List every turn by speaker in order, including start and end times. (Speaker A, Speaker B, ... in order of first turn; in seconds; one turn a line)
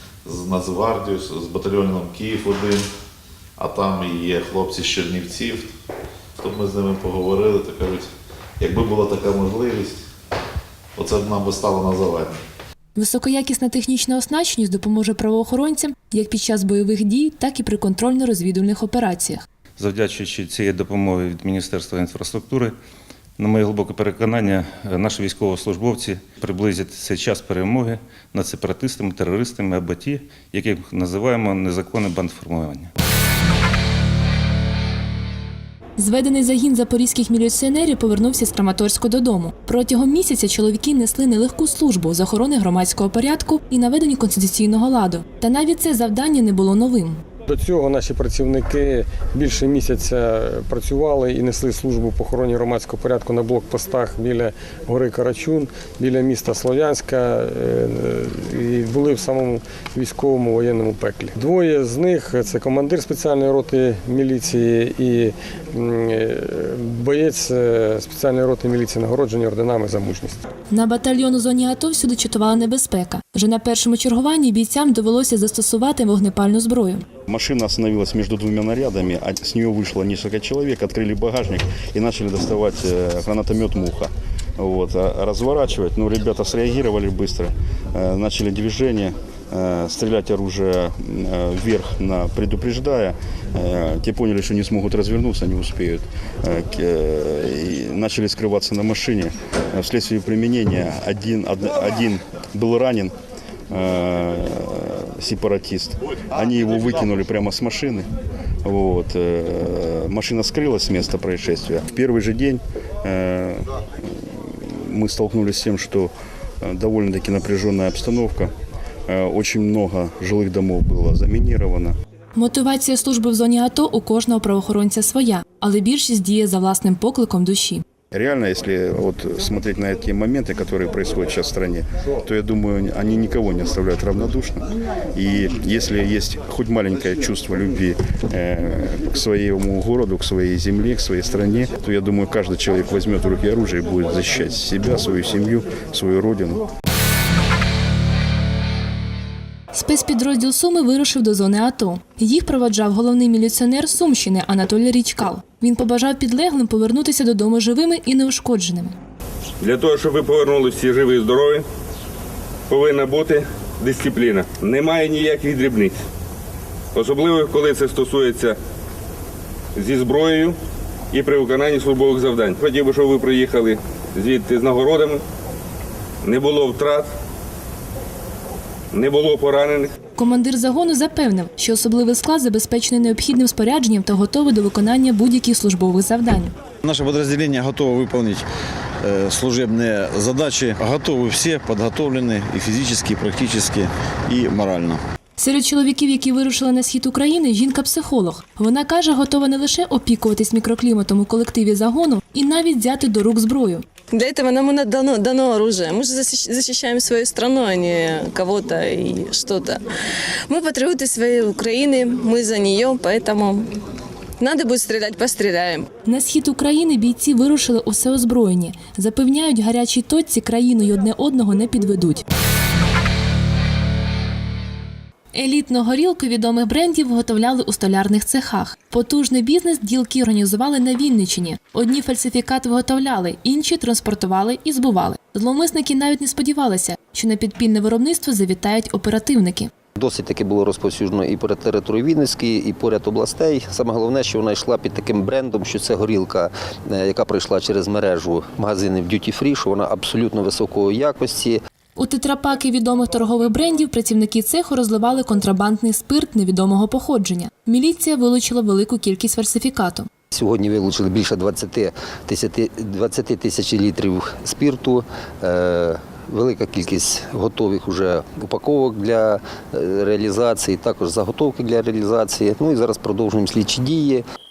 Speaker A: 0.2-2.8
Speaker A: 3.6-5.7
Speaker A: 6.4-8.1
Speaker A: 8.6-10.0
Speaker A: 10.9-12.4
Speaker B: 12.9-19.4
Speaker C: 19.8-22.8
Speaker C: 23.4-32.9
Speaker B: 36.0-47.2
Speaker D: 47.5-70.4
Speaker B: 70.7-77.0
Speaker E: 77.3-103.1
Speaker E: 103.7-108.1
Speaker E: 108.6-118.5
Speaker E: 119.1-121.9
Speaker B: 122.3-127.8
Speaker E: 128.1-146.6
Speaker B: 149.7-158.9
Speaker F: 159.6-161.6
Speaker F: 162.7-166.0
Speaker F: 166.9-168.6
Speaker F: 169.7-170.6
Speaker F: 171.1-175.2
Speaker F: 176.2-177.1
Speaker F: 178.9-179.9
Speaker B: 180.2-186.5
Speaker G: 186.8-188.4
Speaker G: 189.3-193.9
Speaker G: 194.4-195.0
Speaker B: 195.4-203.8
Speaker H: 204.1-209.8
Speaker H: 210.5-213.7
Speaker H: 214.4-215.9
Speaker B: 216.0-222.2
Speaker B: 225.3-239.7
Speaker I: 240.0-251.6
Speaker B: 251.9-260.1
Speaker I: 260.3-274.2